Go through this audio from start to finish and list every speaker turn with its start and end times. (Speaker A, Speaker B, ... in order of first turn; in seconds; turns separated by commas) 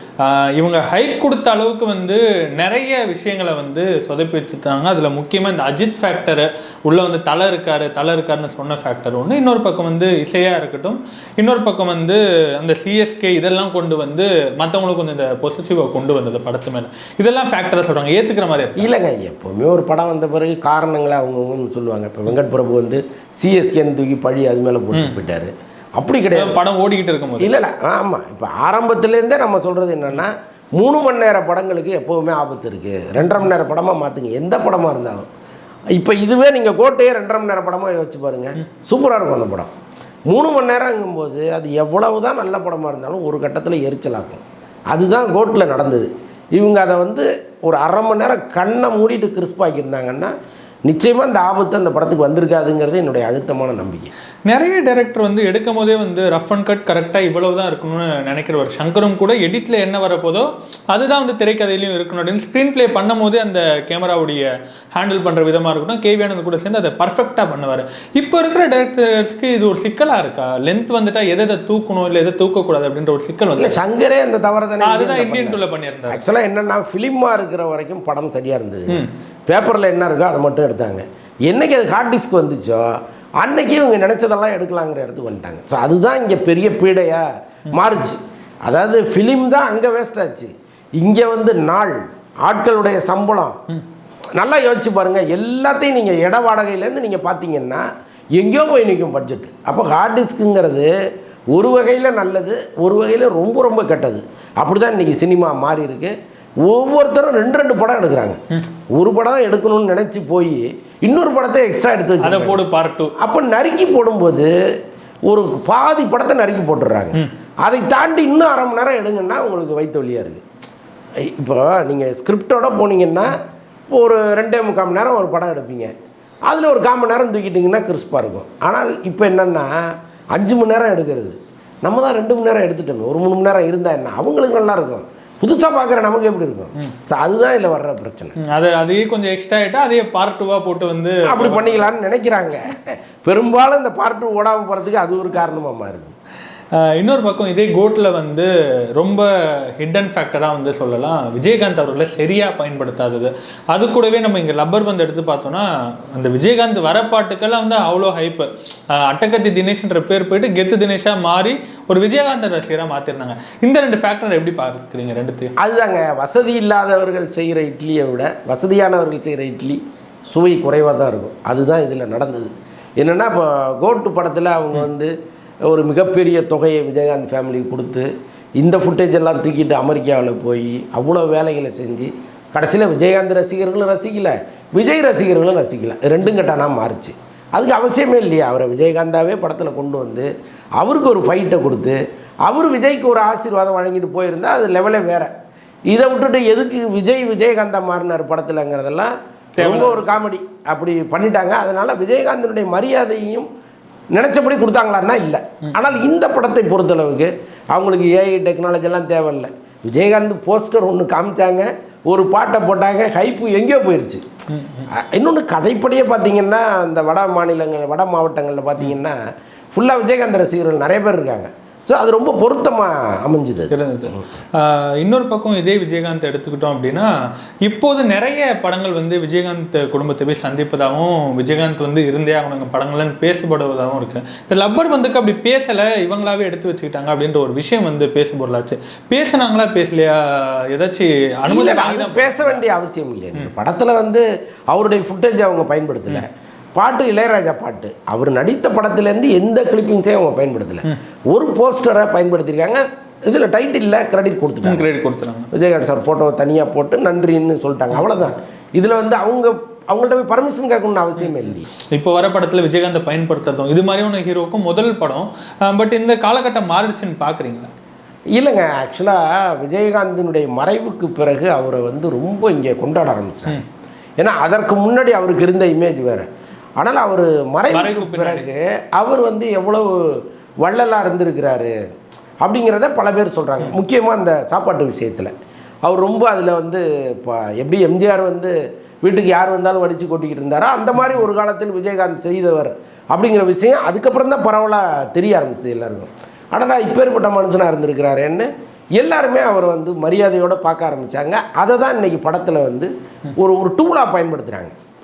Speaker A: 0.2-18.9, Speaker B: 18.8-26.6, Speaker A: 26.3-27.5, Speaker B: 27.4-35.3, Speaker B: 35.9-39.7, Speaker B: 40.3-50.3, Speaker B: 50.9-54.1, Speaker A: 54.5-73.8, Speaker B: 73.6-82.9, Speaker A: 74.8-76.2, Speaker B: 83.4-93.6, Speaker B: 94.4-97.8, Speaker B: 98.4-100.9, Speaker B: 101.5-108.4, Speaker B: 108.9-112.6, Speaker A: 112.2-113.2, Speaker B: 113.2-114.5, Speaker B: 115.3-120.4, Speaker B: 121.2-125.9, Speaker B: 126.5-138.4, Speaker A: 138.4-141.9, Speaker B: 141.2-146.1, Speaker A: 146.7-165.5, Speaker B: 165.6-175.1, Speaker B: 175.7-190.3, Speaker B: 190.8-195.3, Speaker B: 195.9-203.5, Speaker A: 199.6-200.1, Speaker B: 204.1-214.2, Speaker A: 214.5-214.9, Speaker B: 214.9-219.2, Speaker B: 219.7-224.2, Speaker A: 223.7-227.1, Speaker A: 227.6-242.6, Speaker B: 241.5-254.8, Speaker A: 254.6-255.5, Speaker B: 255.5-261.7, Speaker A: 257.9-258.3, Speaker A: 261.4-267.7, Speaker B: 268.4-273.6, Speaker B: 274.2-276.3, Speaker B: 276.8-281.7, Speaker A: 277.7-278.5, Speaker B: 282.4-285.3, Speaker B: 285.9-304.7